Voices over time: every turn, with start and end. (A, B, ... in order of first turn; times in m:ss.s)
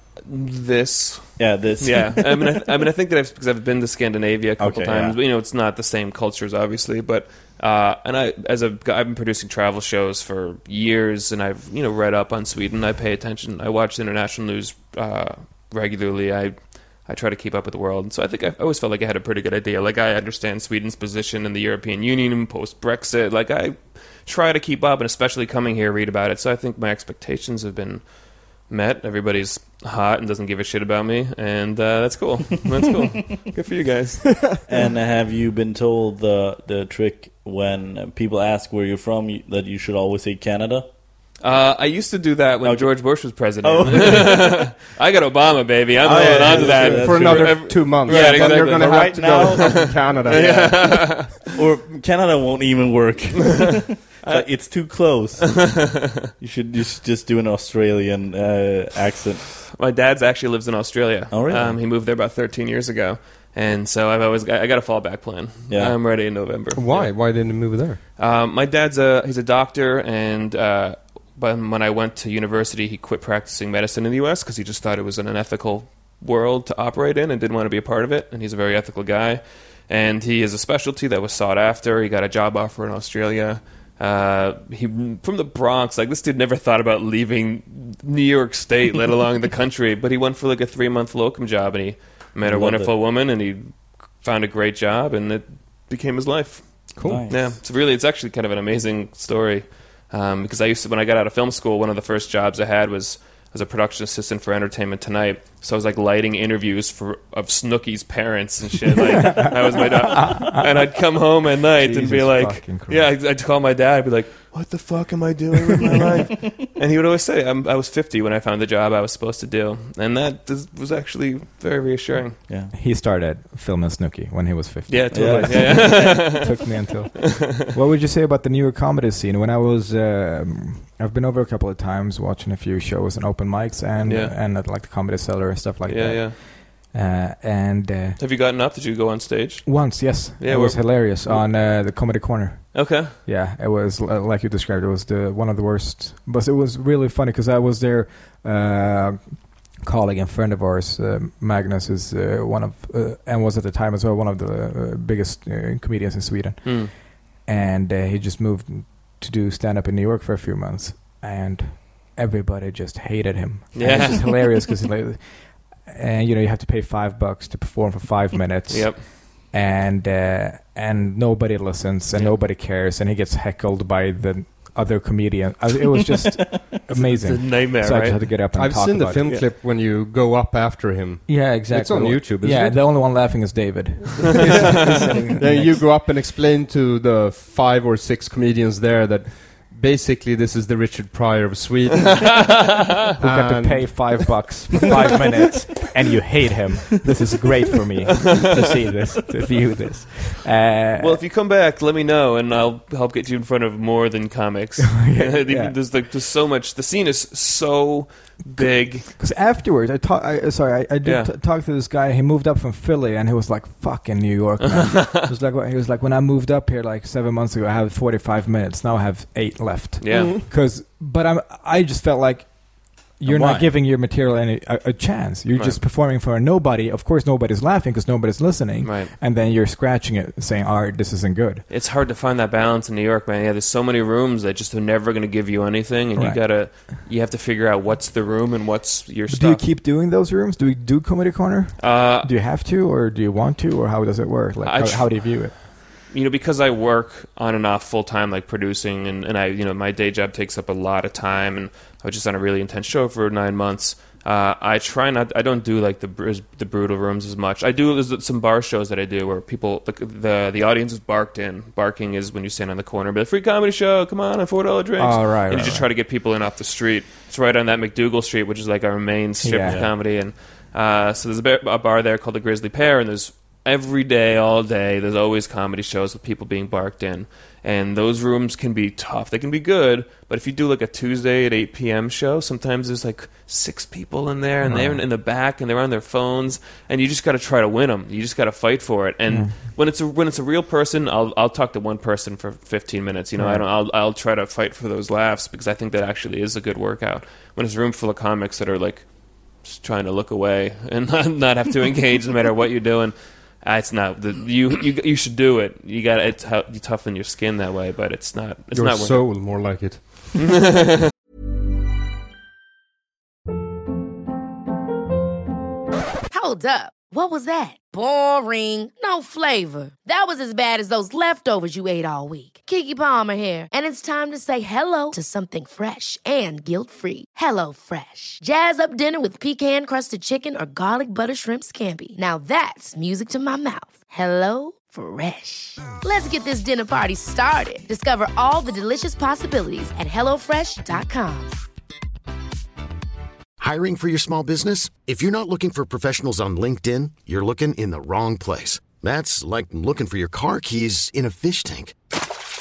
0:00.2-0:34.5 A
0:01.4-0:02.4 B
0:04.6-0:05.2 B
0:34.7-0:40.9 B
0:41.4-0:51.4 A
0:42.6-0:44.8 B
0:46.0-0:55.9 B
0:46.2-0:51.0 C
0:54.2-0:56.3 A
0:56.4-0:59.5 B
0:59.7-1:07.1 A
1:01.3-1:01.8 B
1:05.7-1:06.0 B
1:06.7-1:08.0 C
1:08.2-2:02.4 A
1:32.4-1:33.0 B
1:37.0-1:37.3 C
1:37.0-1:37.6 B
1:49.3-1:50.9 D
1:51.8-1:53.1 D
2:02.5-2:02.7 B
2:02.7-2:18.2 D
2:04.9-2:06.8 A
2:05.1-2:06.4 B
2:14.0-2:14.3 A
2:15.8-2:16.4 A
2:18.2-2:21.5 A
2:19.6-2:59.3 D
2:22.7-2:23.2 A
2:36.6-2:36.9 A
2:43.7-2:44.6 A
2:48.7-2:49.0 A
2:56.9-2:58.3 A
2:58.5-3:02.8 C
3:01.3-3:05.8 D
3:04.4-3:12.6 C
3:12.2-3:12.9 A
3:13.2-3:14.2 C
3:13.2-3:21.2 D
3:21.0-3:29.1 A
3:24.8-3:25.8 D
3:28.5-3:51.6 D
3:31.0-3:31.3 A
3:34.6-3:35.2 A
3:40.0-3:40.4 A
3:43.2-3:43.7 B
3:45.5-3:45.8 A
3:48.8-3:49.1 A
3:51.7-3:59.6 A
3:56.1-3:56.8 D
3:59.3-4:05.6 D
4:01.8-4:02.3 A
4:04.6-4:05.4 A
4:06.1-5:09.2 A
4:25.0-4:25.9 D
4:29.4-4:29.8 D
4:29.6-4:29.9 B
4:44.6-4:45.0 D
4:49.3-4:49.6 D
4:53.4-4:53.6 D
5:08.7-5:10.4 C
5:10.5-5:11.0 A
5:16.3-5:41.5 E
5:43.6-5:51.9 F